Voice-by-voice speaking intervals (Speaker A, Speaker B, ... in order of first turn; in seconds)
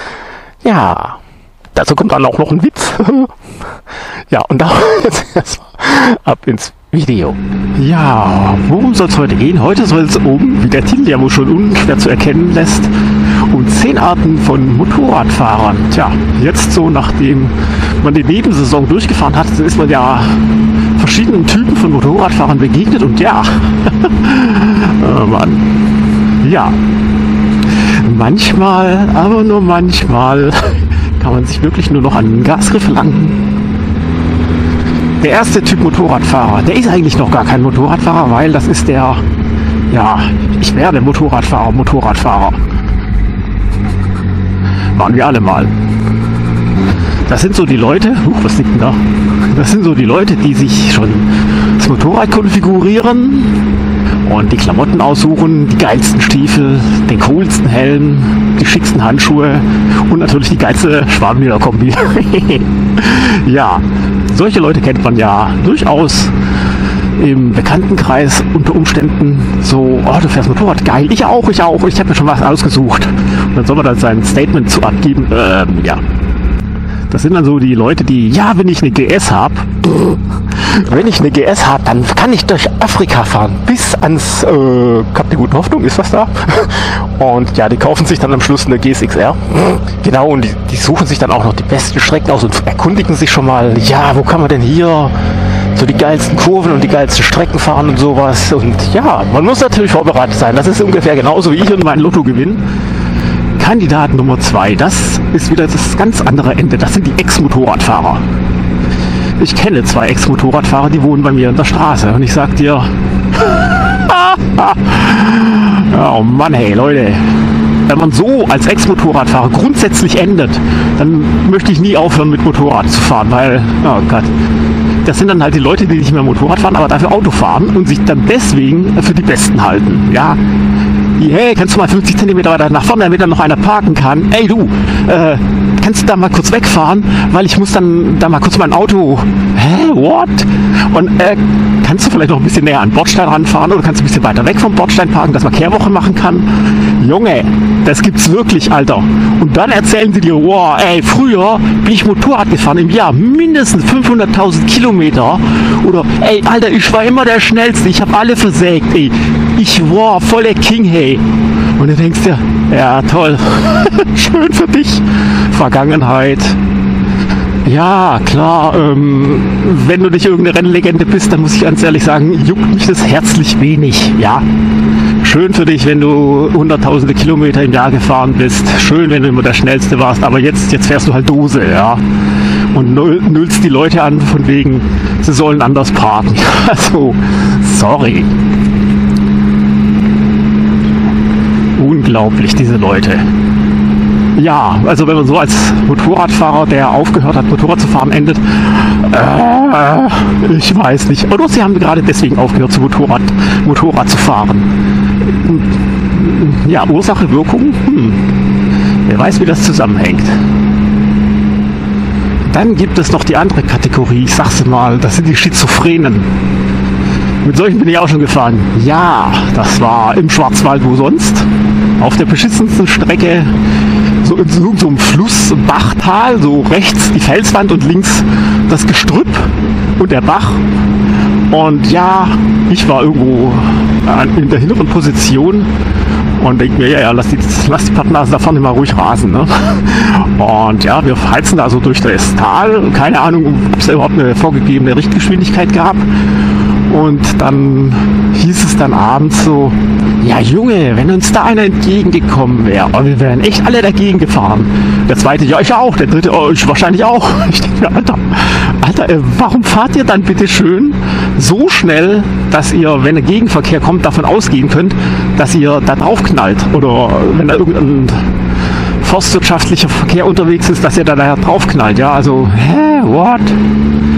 Speaker A: 0.6-1.2, 1.7-3.4, 4.3-25.7, 26.4-26.8, 27.7-33.4, 35.2-39.2, 39.9-42.6, 44.9-45.7, 47.3-53.6, 54.2-66.3, 67.2-76.0, 77.1-95.1, 95.7-102.6, 103.6-108.2, 109.4-124.3, 125.0-130.4, 131.2-161.2, 161.8-166.6, 167.6-174.4, 175.2-182.0, 182.7-188.3, 191.8-193.2, 194.3-204.7, 205.2-208.2, 209.0-210.4, 212.4-216.3, 217.4-223.5, 224.2-230.6, 231.5-235.7, 236.4-246.1, 246.8-268.3, 269.0-273.6